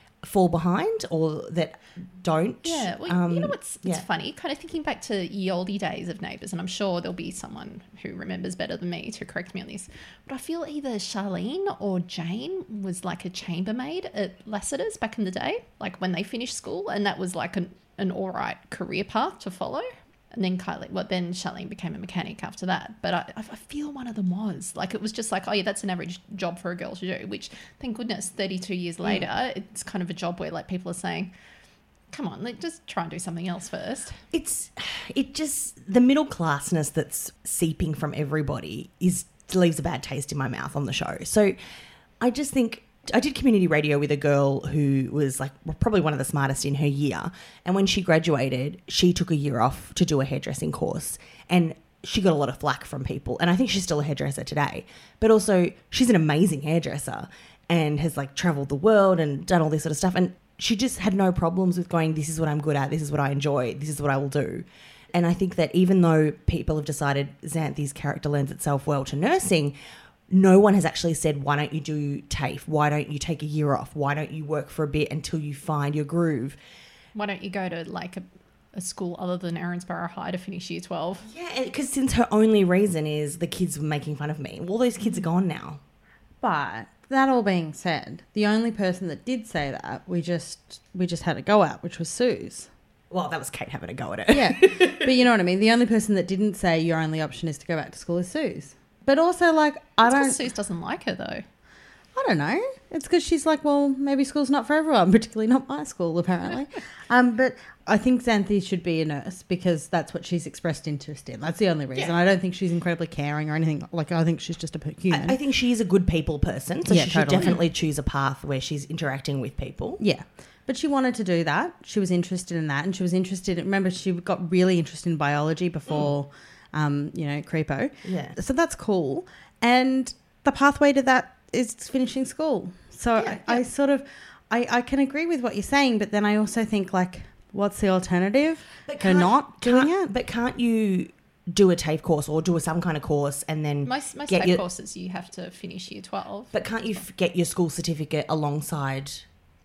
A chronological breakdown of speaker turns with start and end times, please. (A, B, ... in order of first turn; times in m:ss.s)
0:00.2-0:04.0 A
0:02.6-0:31.3 B
0:32.1-0:34.2 B
0:34.3-0:41.6 A
0:42.2-1:09.8 A
1:10.3-1:16.6 A
1:17.2-1:21.3 B
1:21.3-1:25.8 A
1:26.4-1:32.7 C
1:33.1-1:35.2 A
1:34.3-1:40.4 C
1:40.0-1:41.4 B
1:42.2-1:55.4 C
1:55.1-2:00.0 A
1:56.9-1:57.6 C
2:00.0-2:20.1 C
2:08.0-2:08.4 A
2:13.2-2:13.6 A
2:18.9-2:24.6 A
2:23.8-2:27.0 B
2:26.5-2:29.2 A